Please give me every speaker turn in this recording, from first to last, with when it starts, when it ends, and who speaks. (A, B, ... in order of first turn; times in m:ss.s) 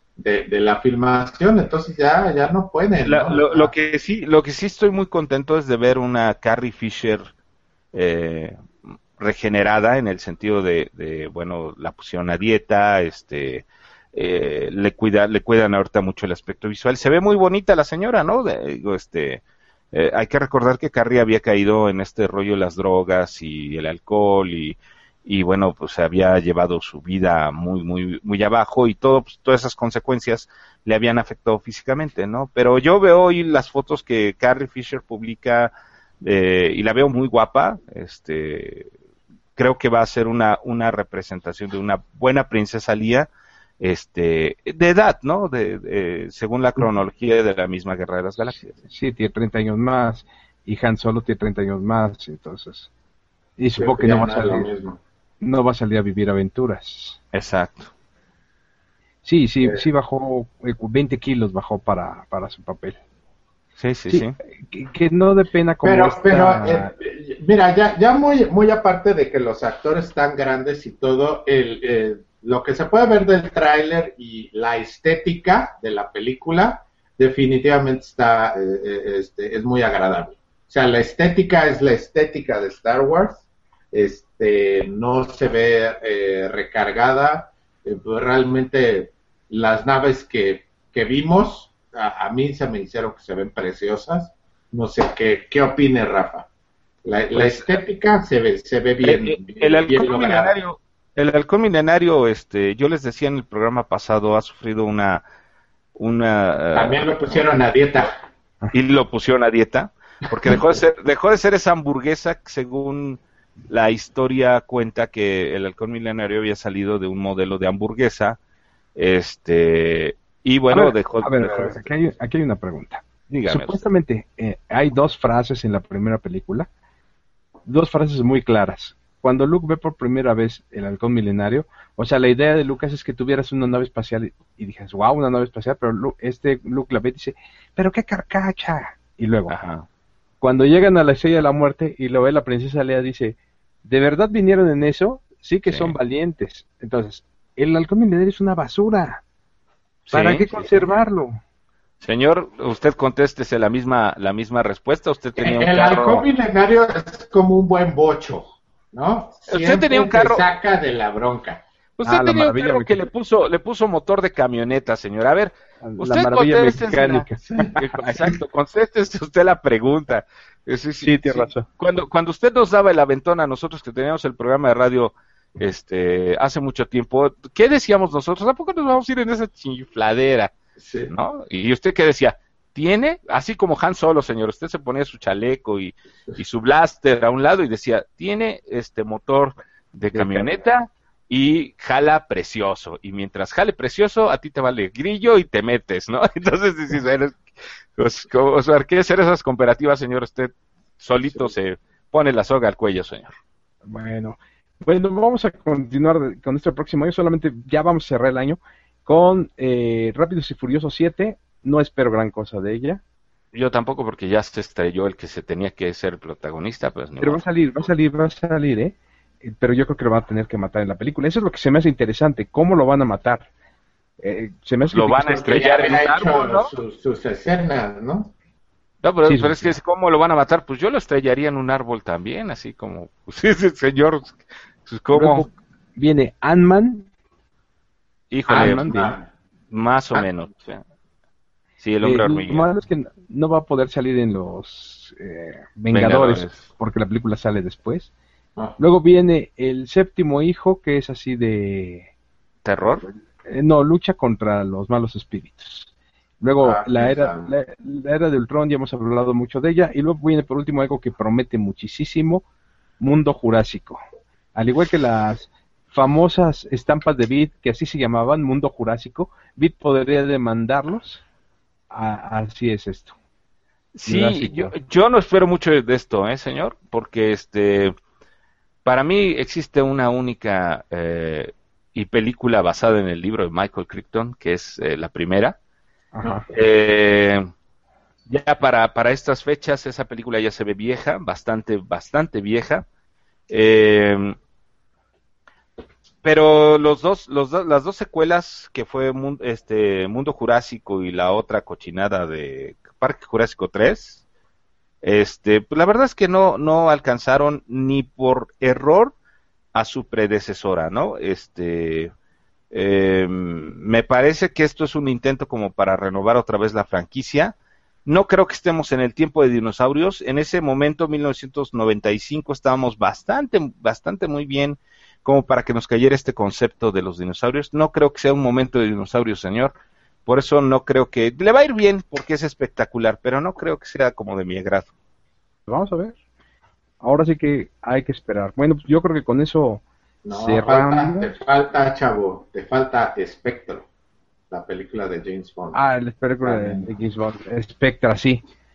0:00.2-0:03.7 A
0:03.0-0:07.3 B
0:07.9-0:08.6 B
0:09.2-0:38.9 B
0:39.6-0:48.8 B
0:48.9-0:52.9 C
0:53.6-0:54.7 C
0:53.8-0:55.0 A
0:55.4-0:57.2 C
0:57.3-0:57.9 B
0:59.2-1:03.0 C
1:03.8-1:04.3 B
1:04.1-1:06.9 C
1:05.8-1:36.5 A
1:37.0-1:40.5 A
1:37.3-1:37.8 B
1:39.0-1:45.2 B
1:45.9-1:47.4 B
1:46.7-1:48.1 A
1:48.7-1:58.4 B
1:59.0-2:01.9 B
2:00.7-2:06.7 C
2:03.3-2:03.8 B
2:07.6-2:19.5 C
2:19.5-2:19.8 B
2:20.4-2:29.2 C
2:25.7-2:25.9 B
2:30.0-2:30.9 B
2:30.1-2:31.4 C
2:32.0-2:36.3 B
2:35.4-2:41.6 A
2:39.5-2:40.4 B
2:42.0-3:00.5 B
2:42.0-2:43.0 C
2:45.8-2:47.4 C
2:47.5-2:48.4 A
2:51.0-2:51.7 C
3:00.8-3:01.1 A
3:01.1-3:17.4 B
3:10.1-3:10.5 C
3:18.0-3:23.3 B
3:23.8-3:33.0 C
3:33.5-3:37.4 B
3:37.2-3:43.5 C
3:44.2-3:45.6 C
3:44.9-3:46.7 B
3:45.4-3:48.3 A
3:49.0-3:55.4 B
3:49.2-3:49.7 C
3:55.1-3:57.1 C
3:58.3-3:58.9 B
3:58.5-3:59.3 A
3:58.5-3:59.2 C
3:59.7-4:00.8 B
4:01.8-4:02.7 B
4:02.0-4:08.1 C
4:05.9-4:06.6 B
4:08.8-4:12.1 C
4:12.6-4:13.0 B
4:12.8-4:15.9 C
4:16.4-4:22.4 C
4:16.6-4:17.5 A
4:23.0-4:24.0 C
4:24.5-4:31.2 C
4:31.9-4:33.1 C
4:33.9-4:37.9 B
4:34.0-4:34.7 C
4:38.8-4:45.6 B
4:46.1-4:46.4 C
4:46.2-4:46.5 A
4:46.5-4:47.4 B
4:48.3-4:52.8 B
4:53.5-4:54.3 B
4:56.2-5:04.2 B
5:05.0-5:09.2 B
5:09.7-5:12.1 B
5:12.7-5:34.9 B
5:35.7-5:36.2 C
5:37.0-5:41.3 C
5:40.2-5:43.9 A
5:44.5-5:45.8 A
5:45.7-5:48.4 C
5:46.4-5:46.9 A